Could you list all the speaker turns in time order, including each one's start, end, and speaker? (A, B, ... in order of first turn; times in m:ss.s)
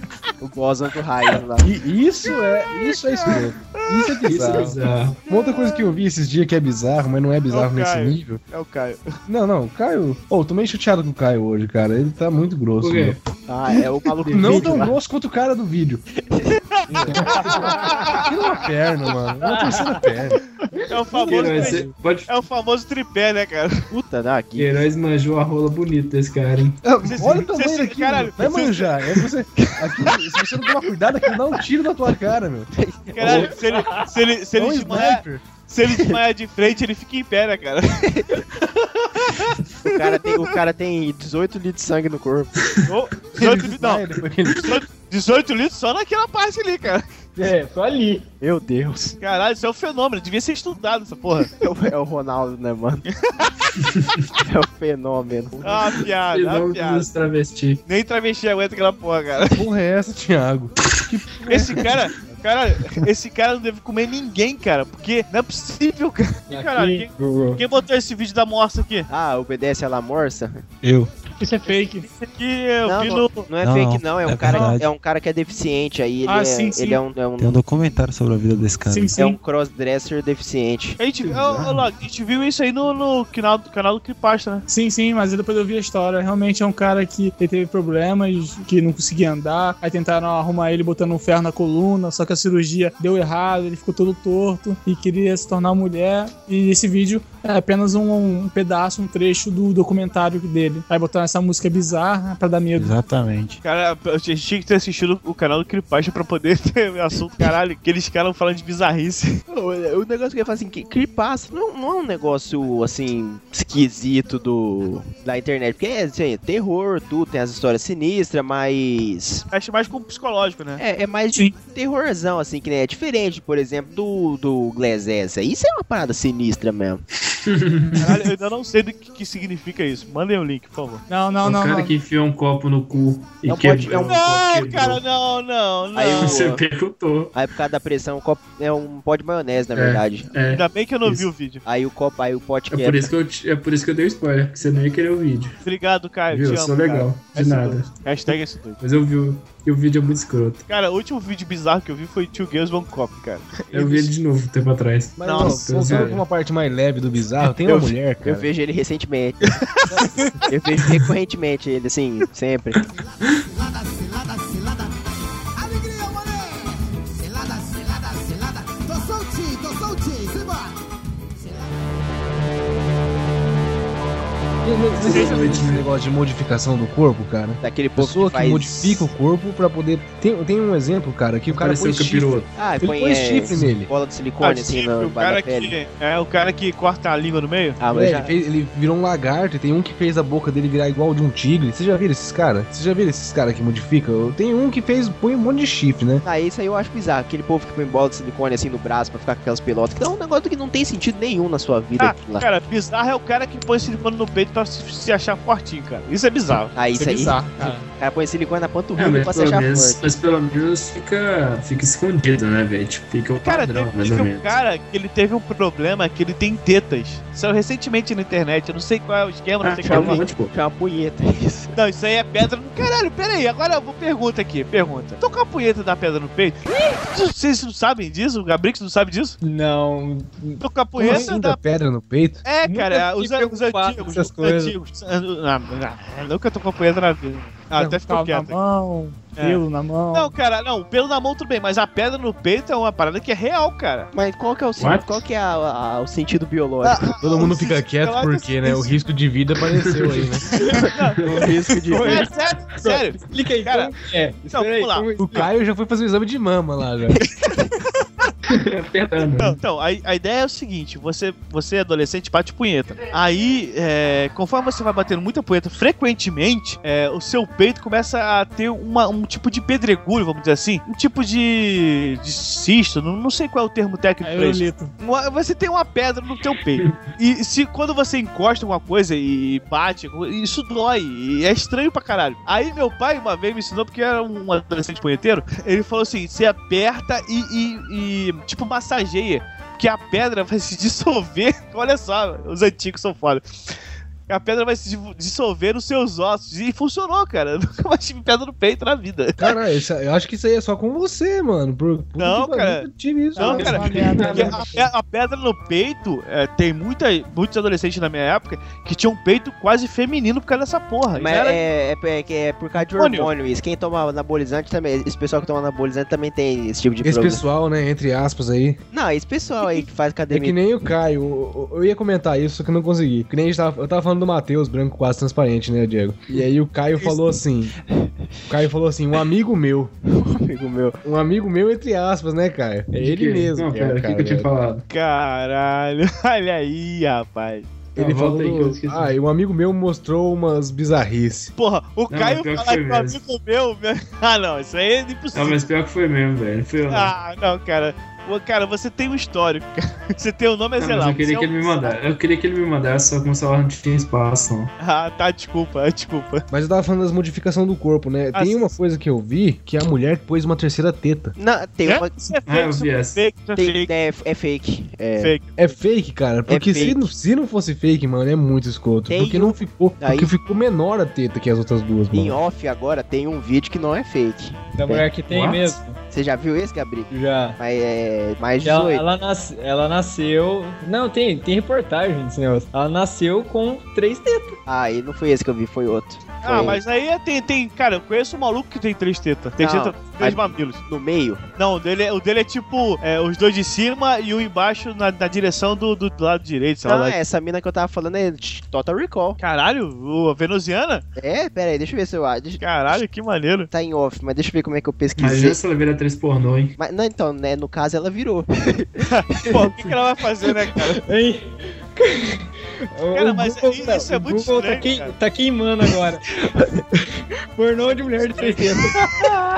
0:00.4-0:01.7 A
0:01.6-0:08.4 B
0:02.9-0:04.6 C
0:04.2-0:05.2 D
0:07.5-0:09.1 C
0:09.3-0:13.2 B
0:12.8-0:13.2 D
0:13.5-0:14.9 A
0:14.2-0:14.9 D
0:14.3-0:16.0 B
0:16.3-0:16.6 A
0:16.9-0:20.4 B
0:16.9-0:17.6 D
0:17.4-0:18.3 C
0:19.4-0:20.1 E
0:20.9-0:23.9 C
0:21.2-0:22.3 D
0:23.9-0:24.7 A
0:24.6-0:26.8 D
0:26.8-0:32.7 B
0:27.0-0:29.0 C
0:32.7-0:33.5 A
0:33.1-0:38.0 C
0:34.6-0:35.4 B
0:35.9-0:36.2 A
0:39.2-0:39.9 C
0:39.8-0:42.6 A
0:42.8-0:44.0 C
0:43.3-0:44.8 B
0:44.6-0:47.0 C
0:47.4-0:48.2 E
0:48.4-0:49.2 A
0:49.2-0:51.5 C
0:51.6-0:53.0 A
0:53.2-0:53.7 C
0:53.8-0:54.2 D
0:54.4-0:55.8 A
0:55.6-0:57.1 C
0:56.3-0:57.8 D
0:57.8-0:59.6 C
0:59.5-1:02.0 B
1:01.5-1:09.1 C
1:06.5-1:07.6 E
1:09.1-1:10.6 A
1:10.8-1:11.1 F
1:11.4-1:12.1 G
1:12.1-1:13.5 C
1:12.8-1:17.6 A
1:13.6-1:14.8 F
1:14.5-1:14.8 G
1:16.2-1:17.0 G
1:17.4-1:19.2 F
1:18.8-1:19.4 G
1:19.2-1:21.0 A
1:21.0-1:24.6 C
1:21.2-1:21.9 D
1:24.7-1:43.0 G
1:42.8-1:43.6 F
1:43.6-1:49.4 C
1:49.5-1:59.4 A
1:59.5-2:00.8 C
2:00.8-2:07.0 A
2:07.4-2:08.2 D
2:08.0-2:11.0 C
2:11.1-2:11.9 G
2:11.4-2:15.0 D
2:13.5-2:14.1 A
2:13.6-2:16.4 C
2:15.9-2:16.6 A
2:16.2-2:17.3 D
2:17.3-2:20.3 A
2:19.8-2:21.3 D
2:20.5-2:21.6 C
2:21.6-2:23.1 A
2:22.7-2:25.6 D
2:25.6-2:28.8 C
2:26.3-2:27.9 D
2:28.8-2:30.6 D
2:30.7-2:34.1 C
2:33.7-2:36.2 D
2:35.2-2:38.5 B
2:35.2-2:36.1 C
2:37.6-2:42.8 A
2:43.0-2:44.9 H
2:45.6-2:50.7 H
2:51.4-2:51.9 H
2:54.6-3:03.9 B
2:55.0-2:55.8 D
2:55.1-2:55.6 C
2:57.6-2:59.1 A
3:01.5-3:02.5 D
3:02.6-3:05.8 A
3:04.4-3:07.8 C
3:07.8-3:08.3 A
3:07.9-3:16.2 B
3:16.2-3:22.4 A
3:22.0-3:26.8 C
3:26.7-3:30.0 A
3:26.9-3:27.9 G
3:28.9-3:34.6 D
3:33.4-3:40.2 C
3:39.6-3:40.5 D
3:39.8-3:41.8 A
3:41.7-3:49.4 C
3:49.4-3:51.3 E
3:50.6-3:51.7 C
3:51.0-3:52.4 B
3:52.4-3:58.6 C
3:52.6-3:54.7 E
3:57.9-4:00.3 G
3:59.3-3:59.6 C
4:00.1-4:04.1 C
4:04.1-4:07.1 A
4:04.8-4:05.2 D
4:06.8-4:08.9 C
4:07.2-4:10.5 B
4:09.8-4:10.3 D
4:10.6-4:15.5 E
4:10.8-4:12.3 A
4:10.9-4:11.2 C
4:12.0-4:13.9 C
4:14.5-4:15.5 C
4:15.2-4:17.2 B
4:17.1-4:17.7 A
4:18.0-4:18.3 C
4:18.5-4:19.6 D
4:19.4-4:53.7 C
4:34.2-4:34.9 G
4:54.3-4:59.5 C
4:59.4-5:04.6 B
5:02.2-5:11.6 C
5:03.3-5:04.9 G
5:03.5-5:04.6 D
5:11.1-5:17.4 A
5:12.8-5:13.3 C
5:17.0-5:18.8 B
5:18.9-5:20.6 A
5:20.3-5:27.8 B
5:28.5-5:29.9 B
5:30.1-5:31.0 A
5:31.0-5:34.5 B
5:32.9-5:34.8 D
5:34.9-5:37.7 C
5:38.0-5:39.1 D
5:38.0-5:41.5 B
5:41.6-5:45.6 C
5:42.1-5:43.2 D
5:45.3-5:47.1 D
5:46.9-5:51.9 C
5:50.8-5:54.7 D
5:54.8-5:56.4 C
5:56.5-6:01.4 B
5:58.3-5:58.7 C
6:01.4-6:02.1 A
6:01.8-6:03.9 C
6:02.4-6:03.2 D
6:03.6-6:05.3 A
6:05.2-6:05.5 C
6:05.6-6:12.4 B
6:06.5-6:07.1 A
6:09.1-6:10.3 A
6:12.1-6:15.1 A
6:14.8-6:16.0 E
6:15.3-6:15.8 D
6:16.1-6:19.0 A
6:17.1-6:17.6 E
6:18.6-6:24.6 E
6:24.6-6:26.8 A
6:26.4-6:30.8 C
6:29.6-6:31.4 A
6:31.6-6:37.2 C
6:36.8-6:39.4 A
6:39.4-6:41.0 C
6:41.2-6:42.6 A
6:42.6-6:43.7 C
6:43.7-6:45.6 A
6:45.2-6:46.8 D
6:46.8-6:49.5 A
6:49.0-6:51.0 C
6:51.0-6:56.2 E
6:53.1-6:55.1 C
6:57.6-6:59.0 E
6:58.4-6:58.7 A